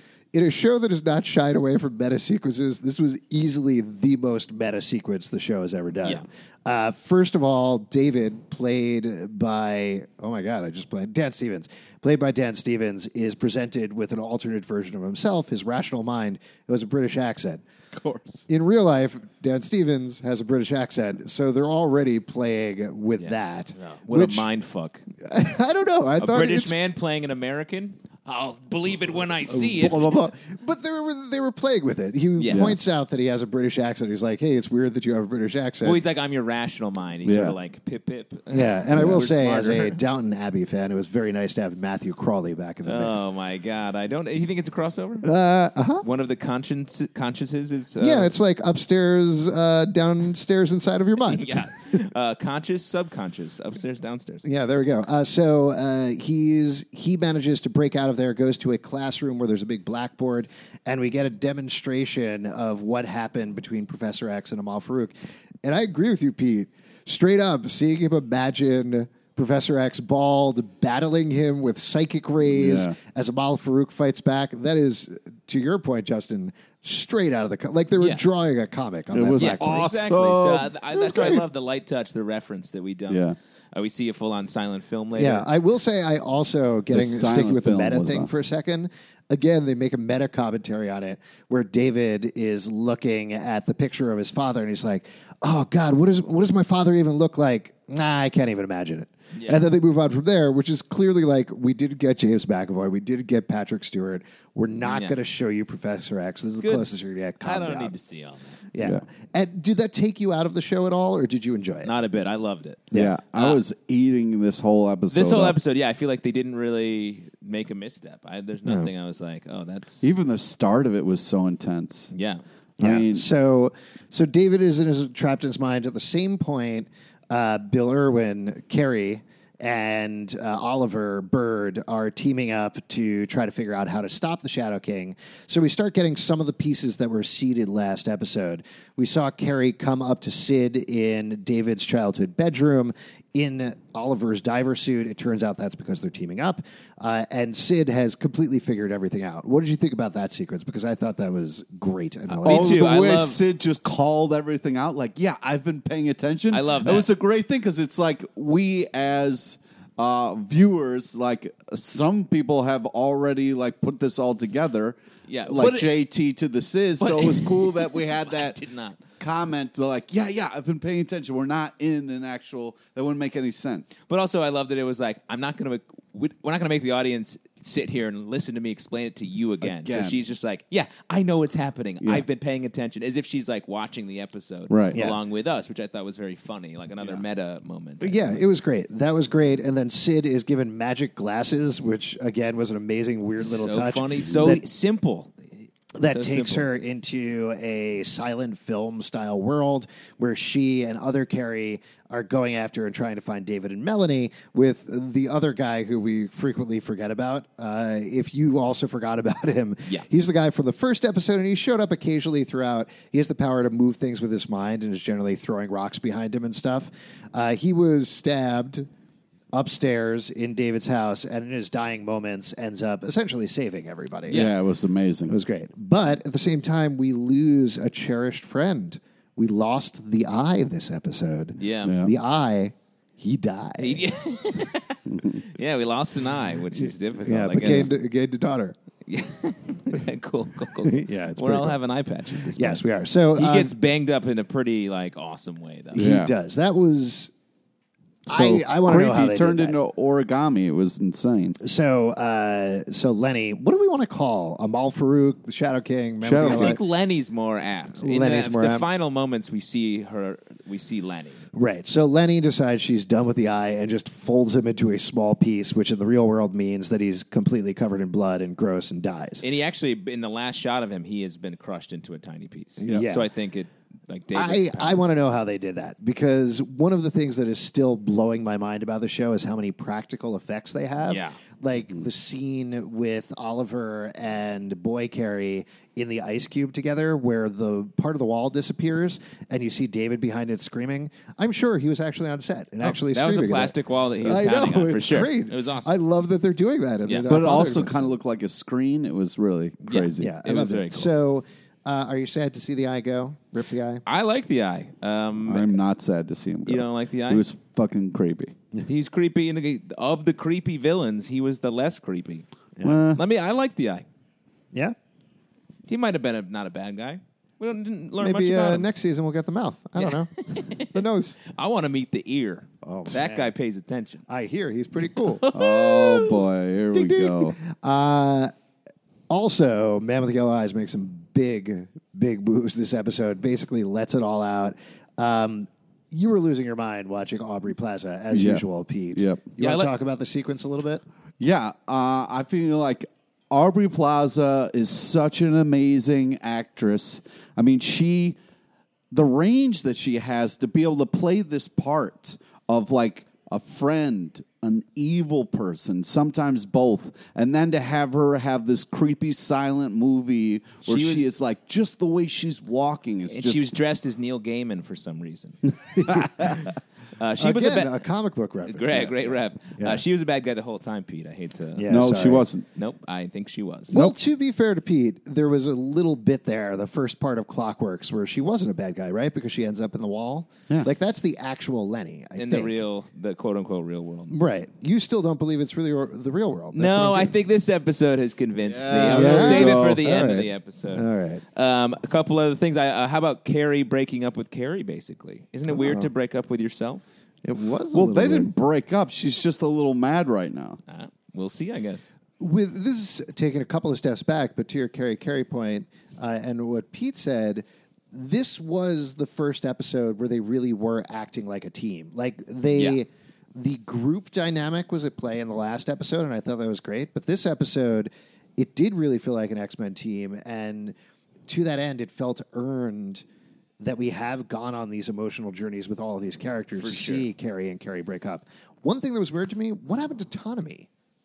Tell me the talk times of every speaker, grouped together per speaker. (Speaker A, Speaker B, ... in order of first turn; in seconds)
Speaker A: 0.3-17.6, 18.5-24.5, 25.2-26.8, 29.5-36.0, 38.5-43.2, 45.2-46.0, 48.0-51.6, 54.4-80.0, 80.9-81.4, 85.1-107.9, 108.7-111.9, 118.6-118.9, 122.8-152.9, 184.9-185.2, 188.0-194.6, 195.9-218.9, 219.5-224.5, 225.3-234.0, 236.8-238.8, 240.8-241.8, 242.4-243.7, 245.9-247.3, 248.3-249.8, 251.6-256.8, 258.0-258.9, 261.5-269.4, 272.8-273.3, 274.3-298.2, 300.2-304.0, 318.2-321.4, 322.8-323.5, 324.3-325.4, 326.9-328.5, 329.3-341.0, 367.4-370.0, 371.8-372.5, 373.9-382.8, 384.3-387.3, 388.9-391.4, 395.7-396.1, 397.4-398.5, 402.4-420.9, 421.5-423.2, 423.8-430.9
Speaker B: 18.0-18.4, 23.2-25.0, 26.2-30.2, 32.4-32.7, 35.8-40.0, 42.8-45.3, 46.0-48.3, 51.3-54.5, 79.4-85.5, 99.3-99.7, 104.8-105.2, 106.6-106.9, 107.4-108.6, 111.8-113.6, 115.1-120.1, 122.1-122.4, 152.3-153.4, 156.5-157.1, 165.3-165.9, 167.0-169.0, 174.1-188.3, 193.4-195.5, 196.0-196.7, 231.6-231.9, 233.8-237.9, 239.1-242.8, 243.3-246.1, 256.4-261.4, 269.4-275.1, 281.1-281.4, 292.8-295.9, 299.8-301.1, 304.1-305.8, 306.6-307.4, 308.8-312.4, 313.1-314.0, 315.9-318.9, 320.0-324.2, 325.1-326.4, 339.6-339.9, 360.9-361.2, 363.3-366.6, 367.2-367.9, 368.6-371.9, 372.7-374.1, 382.4-384.4, 386.7-397.0, 400.9-402.1, 426.8-427.3
Speaker C: 32.5-32.8, 37.2-37.5, 72.5-72.9, 79.1-80.7, 83.1-83.3, 86.9-88.3, 112.9-115.6, 120.0-122.1, 122.8-123.2, 152.4-165.0, 165.5-168.6, 169.2-173.9, 179.6-180.2, 184.7-185.0, 224.3-225.4, 231.8-232.1, 235.1-235.4, 245.9-246.3, 248.3-251.6, 256.2-256.8, 297.3-300.4, 305.5-308.5, 312.8-313.2, 325.5-327.6, 338.3-338.6, 339.1-339.4, 341.4-348.4, 349.1-363.7, 366.0-366.6, 371.9-372.6, 388.7-390.0, 397.9-400.8